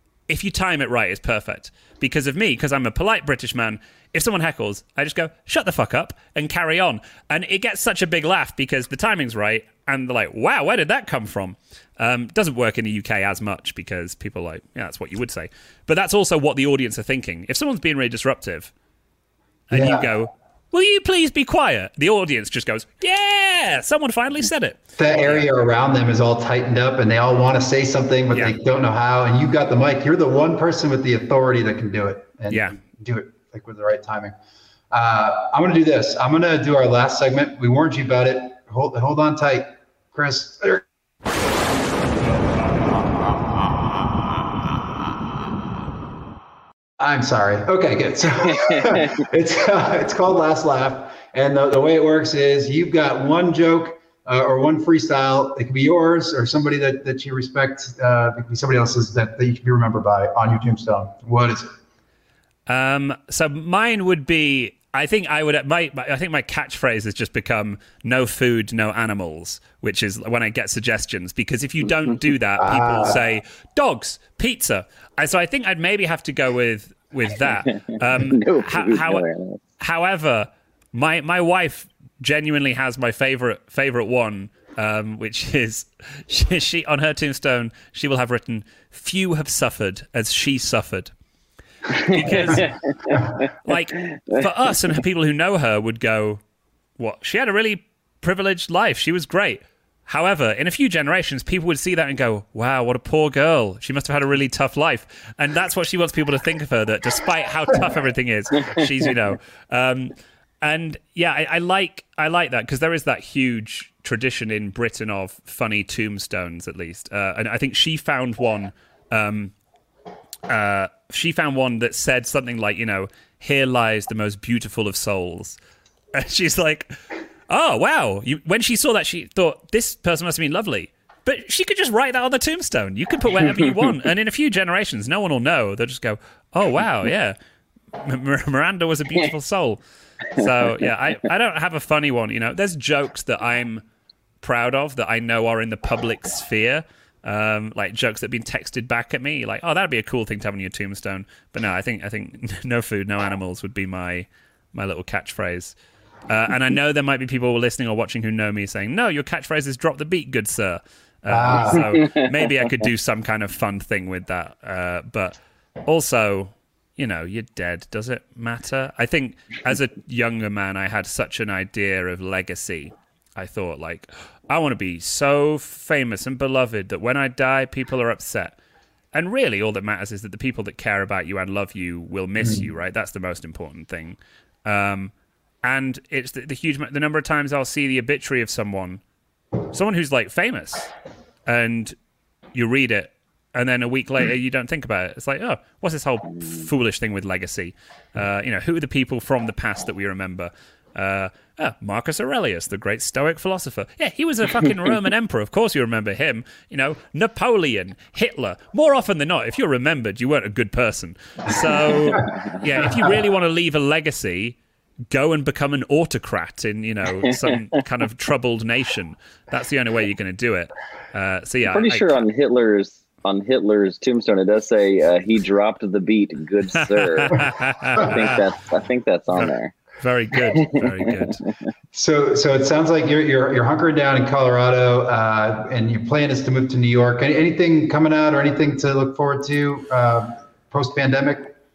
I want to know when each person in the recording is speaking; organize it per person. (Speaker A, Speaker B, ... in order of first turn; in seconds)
Speaker A: 0.3-18.7, 19.7-25.5, 32.5-32.8, 62.7-79.2, 79.8-91.1, 92.0-96.4, 97.0-119.5, 120.5-125.6, 126.2-127.0, 127.5-137.4, 138.0-139.8, 140.3-143.8, 144.4-155.7, 156.3-178.6, 179.1-185.1, 185.6-189.0, 189.7-190.9, 191.5-192.0, 192.6-214.6, 215.1-222.2, 226.8-228.4, 229.3-231.4
Speaker B: 19.7-20.1, 25.0-34.4, 34.9-40.8, 47.0-61.7, 72.6-73.2, 161.3-162.0, 231.9-241.6
Speaker C: 48.5-49.1, 77.7-79.6, 91.9-93.5, 94.0-94.4, 161.9-162.2, 221.7-229.8, 230.6-231.5